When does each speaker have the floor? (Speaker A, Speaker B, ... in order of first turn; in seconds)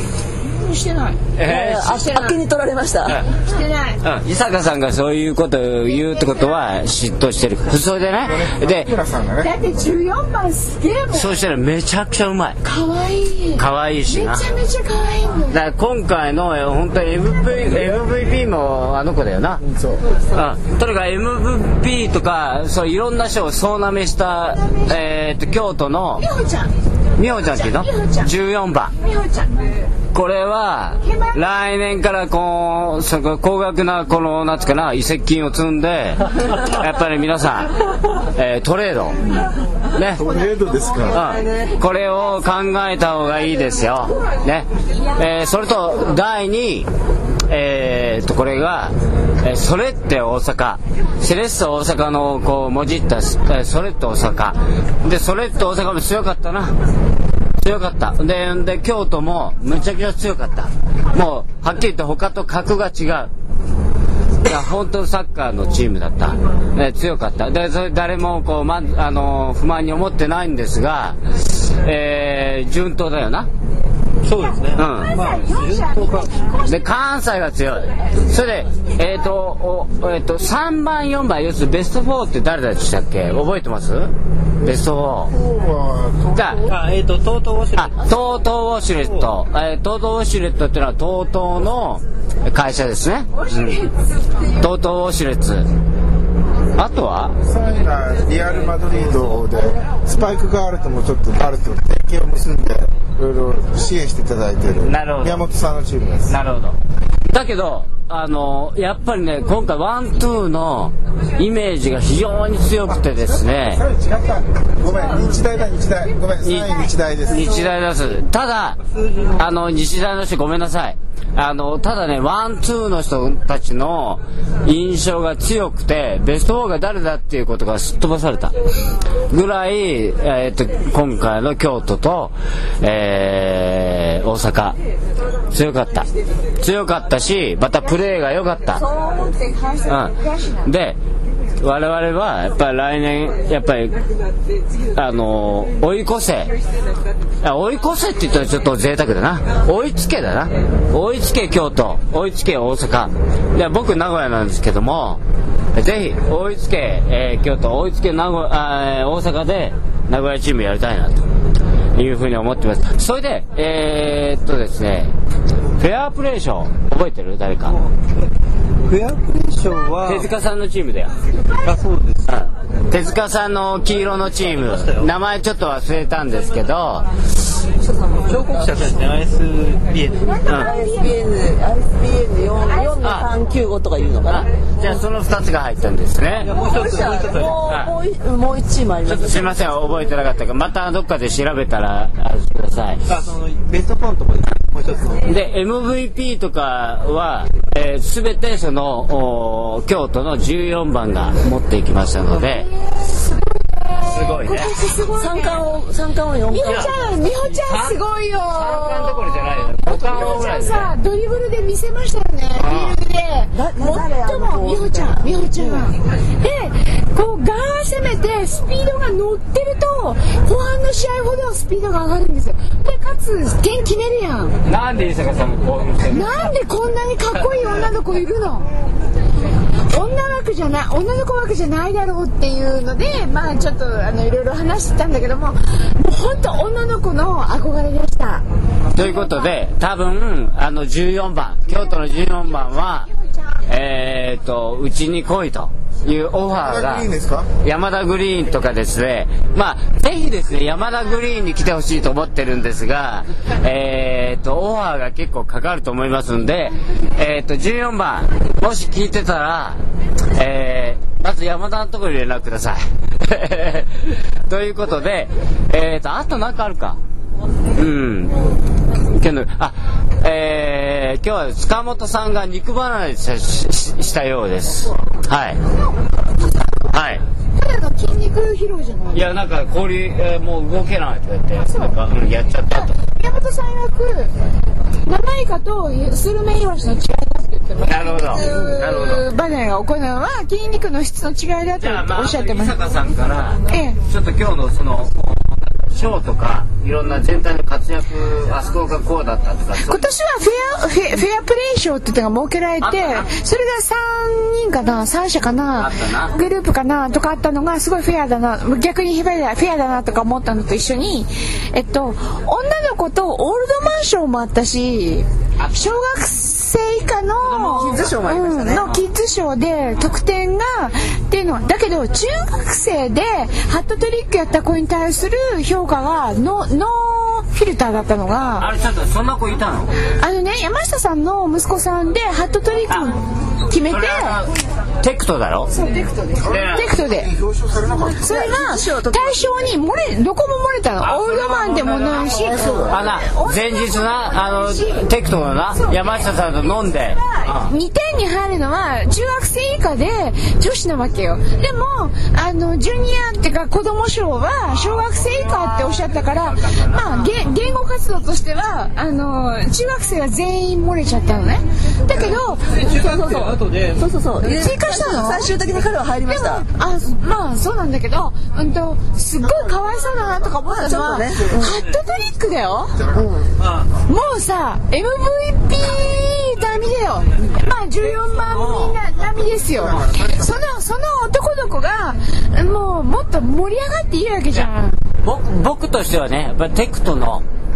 Speaker A: 0.5-1.2, 3.3-4.0, 5.9-6.6, 9.4-11.4, 12.6-15.6, 24.5-24.9, 26.2-26.7, 27.2-28.3, 29.0-29.6, 31.0-31.4, 74.8-76.9, 93.3-94.0, 138.7-140.7, 180.2-181.3, 202.7-205.7, 206.5-224.6, 226.1-228.7, 229.9-239.6, 241.7-243.7, 275.8-276.8, 277.6-279.3, 281.6-282.0, 282.7-284.3, 285.1-292.8, 293.7-294.0, 299.8-328.7, 330.1-334.4, 335.7-337.3, 338.2-345.1, 345.7-363.0, 364.5-365.5, 366.3-373.0, 374.1-385.0
Speaker B: 1.4-2.3, 4.0-8.9, 11.1-12.6, 13.6-14.5, 15.5-19.6, 20.3-26.3, 27.2-28.9, 30.1-39.2, 40.0-40.2, 41.1-46.9, 47.5-56.7, 57.6-63.3, 64.4-73.5, 74.8-75.2, 76.7-84.1, 84.6-85.3, 86.3-86.6, 87.8-93.8, 94.6-95.7, 96.8-97.3, 104.8-105.5, 106.3-106.8, 107.3-113.8, 116.4-116.8, 117.3-118.8, 119.3-128.5, 129.3-134.8, 135.5-136.1, 136.6-138.8, 139.9-141.0, 141.6-144.0, 144.9-146.5, 147.4-155.2, 155.8-161.2, 161.9-165.1, 165.8-167.8, 170.1-171.1, 172.3-177.1, 183.0-183.3, 184.3-186.5, 187.7-187.9, 189.1-193.0, 195.3-202.7, 204.1-204.7, 206.7-206.9, 207.5-208.0, 208.5-210.9, 212.6-213.0, 224.7-226.3, 238.9-243.1, 243.7-247.1, 247.6-259.8, 260.3-267.0, 267.8-268.4, 269.1-275.6, 276.9-277.2, 279.1-282.9, 287.8-289.2, 291.8-300.1, 302.8-303.3, 305.8-306.3, 317.4-319.0, 328.6-329.9, 333.8-334.5, 335.0-335.7, 336.5-336.9, 341.0-347.7, 355.6-357.3, 378.5-379.0, 385.2-387.4
Speaker C: 1.4-3.2, 177.9-178.7, 180.4-184.5, 186.5-190.1, 205.1-207.0, 213.5-215.9, 338.2-339.6, 362.9-366.6, 370.7-371.8, 373.1-373.5
Speaker D: 8.2-9.8, 19.6-20.1, 40.1-41.2, 85.3-86.8, 97.4-106.3, 113.2-117.7, 246.5-247.5, 336.4-338.4, 342.1-343.1, 369.4-371.7, 372.9-373.5, 379.3-380.7
Speaker E: 74.2-76.5, 86.7-88.3, 88.9-89.3, 119.0-119.4, 167.7-167.9, 168.9-170.3, 171.6-172.4, 174.5-175.1, 178.2-180.5, 186.4-187.7, 193.1-195.3, 202.3-202.6, 362.7-364.7, 373.6-374.0